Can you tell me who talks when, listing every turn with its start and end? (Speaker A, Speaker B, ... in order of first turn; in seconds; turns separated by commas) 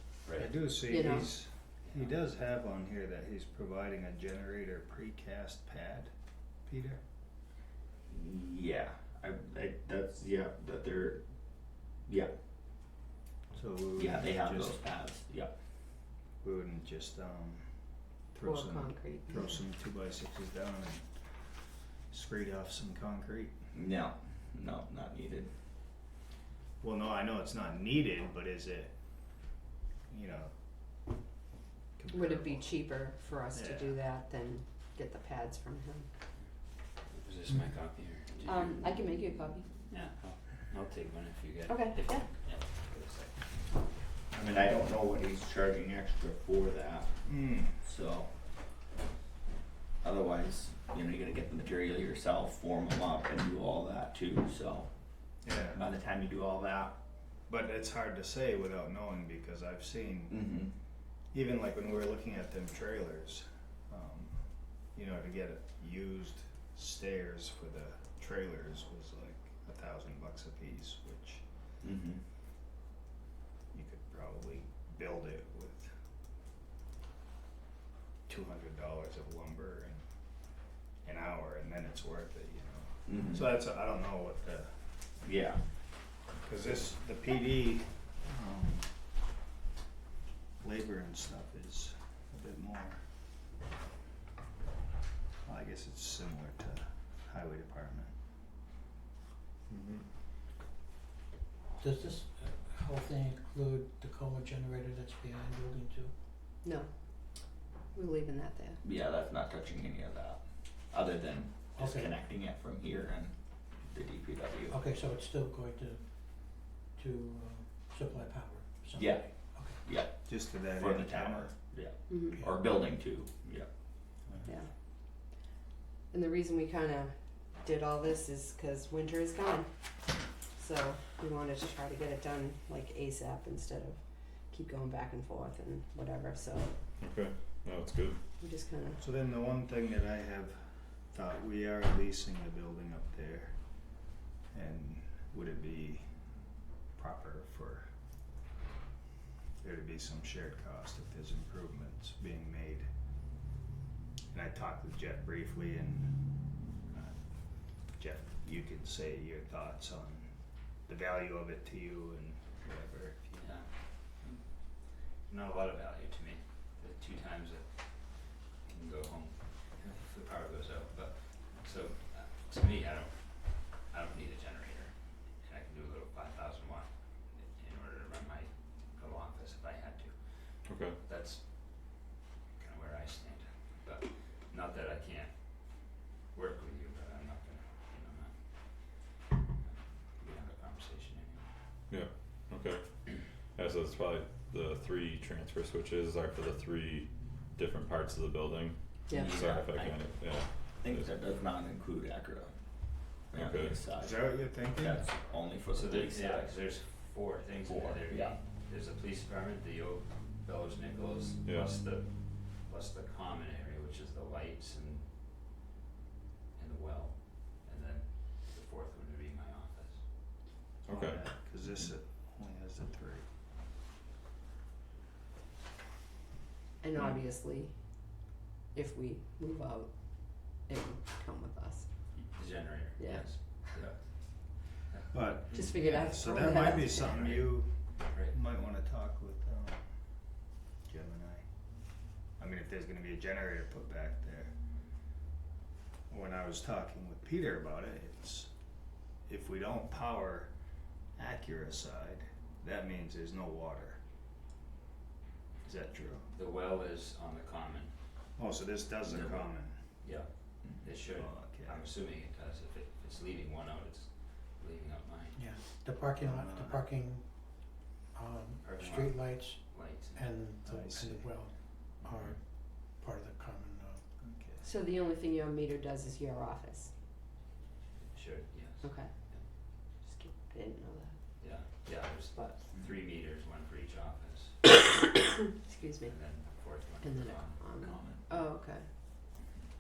Speaker A: 0.2-0.5, Speaker B: 0.4-6.1, Speaker C: 0.9-1.4, Speaker A: 1.9-2.2, Speaker B: 6.6-7.0, Speaker D: 8.1-11.2, Speaker D: 12.1-12.3, Speaker B: 13.5-14.8, Speaker D: 14.0-15.5, Speaker B: 16.4-21.5, Speaker C: 18.4-19.6, Speaker B: 22.1-23.6, Speaker D: 23.7-25.5, Speaker B: 26.8-28.9, Speaker B: 30.1-30.5, Speaker B: 32.0-32.8, Speaker C: 32.1-36.1, Speaker B: 33.5-34.0, Speaker A: 37.1-39.0, Speaker C: 38.5-39.7, Speaker A: 39.9-43.7, Speaker C: 41.7-42.3, Speaker D: 44.3-47.2, Speaker B: 47.2-47.8, Speaker D: 47.8-48.4, Speaker D: 50.0-54.9, Speaker B: 55.4-55.9, Speaker D: 55.7-57.0, Speaker B: 57.5-60.4, Speaker D: 60.3-60.7, Speaker B: 61.3-71.5, Speaker D: 71.8-72.2, Speaker B: 73.7-76.0, Speaker B: 78.3-80.0, Speaker B: 81.0-85.1, Speaker D: 83.1-83.5, Speaker D: 85.2-85.6, Speaker B: 86.4-89.0, Speaker B: 90.6-93.1, Speaker B: 95.4-98.2, Speaker E: 99.7-100.0, Speaker F: 101.8-106.1, Speaker C: 106.6-108.8, Speaker D: 108.8-114.8, Speaker F: 111.8-112.2, Speaker F: 114.7-119.8, Speaker D: 119.0-123.7, Speaker B: 120.2-121.5, Speaker C: 122.1-122.4, Speaker F: 122.3-122.6, Speaker B: 124.2-124.5, Speaker C: 126.1-129.7, Speaker C: 130.5-136.7, Speaker E: 137.0-138.2, Speaker C: 138.4-139.0, Speaker B: 139.0-146.1, Speaker B: 146.9-147.9, Speaker B: 149.6-152.9, Speaker B: 154.3-156.2, Speaker B: 157.7-163.4, Speaker A: 163.3-180.3, Speaker E: 180.7-181.0, Speaker A: 181.0-182.0, Speaker A: 182.6-189.1, Speaker A: 189.6-191.5, Speaker E: 191.9-201.1, Speaker D: 199.1-206.5, Speaker E: 203.3-203.8, Speaker B: 203.9-205.0, Speaker A: 205.7-215.1, Speaker D: 207.7-208.4, Speaker E: 211.4-211.7, Speaker A: 216.6-220.1, Speaker E: 220.9-221.2, Speaker B: 220.9-223.2, Speaker C: 226.8-227.8, Speaker C: 228.7-231.9, Speaker A: 232.3-238.4, Speaker C: 233.0-233.8, Speaker B: 235.1-240.3, Speaker C: 235.5-237.2, Speaker B: 240.8-241.5, Speaker B: 242.4-244.6, Speaker B: 246.1-248.5, Speaker B: 249.2-250.5, Speaker B: 251.2-254.0, Speaker B: 255.6-256.3, Speaker A: 256.3-257.9, Speaker B: 258.4-260.0, Speaker D: 259.1-259.5, Speaker A: 260.0-265.5, Speaker B: 261.2-261.9, Speaker F: 265.4-274.0, Speaker B: 266.2-266.8, Speaker A: 268.6-270.4, Speaker B: 270.6-271.3, Speaker B: 274.2-274.7, Speaker C: 274.6-276.9, Speaker A: 278.1-279.4, Speaker C: 278.8-279.1, Speaker C: 279.8-281.2, Speaker A: 281.4-284.7, Speaker C: 282.3-282.6, Speaker C: 285.6-286.1, Speaker A: 286.0-287.8, Speaker C: 287.0-288.9, Speaker D: 287.8-288.2